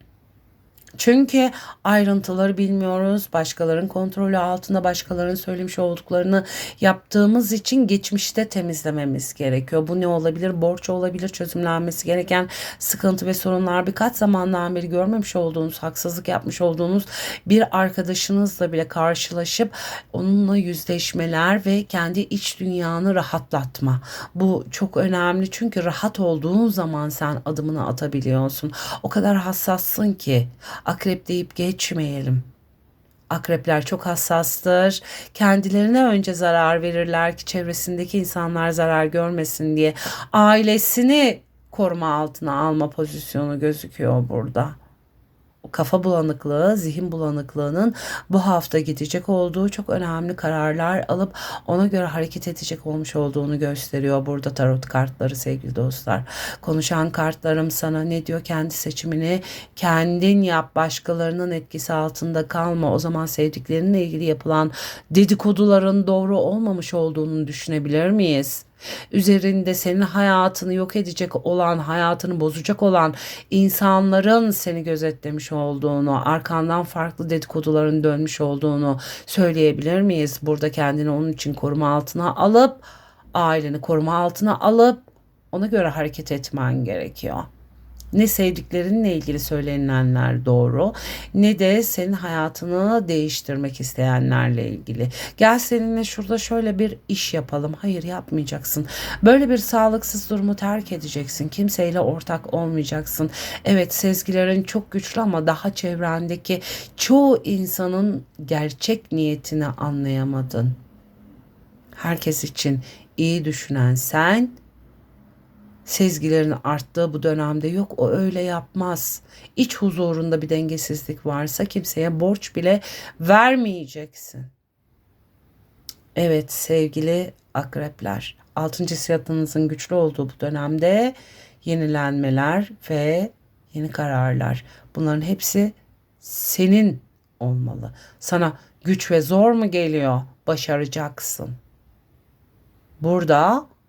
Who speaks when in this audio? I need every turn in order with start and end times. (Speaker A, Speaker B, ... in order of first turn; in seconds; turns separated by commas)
Speaker A: 0.9-32.5, Speaker A: 33.3-44.8, Speaker A: 45.6-87.5, Speaker A: 88.1-110.8, Speaker A: 111.9-114.6, Speaker A: 115.8-124.5, Speaker A: 126.1-141.6, Speaker A: 143.0-143.7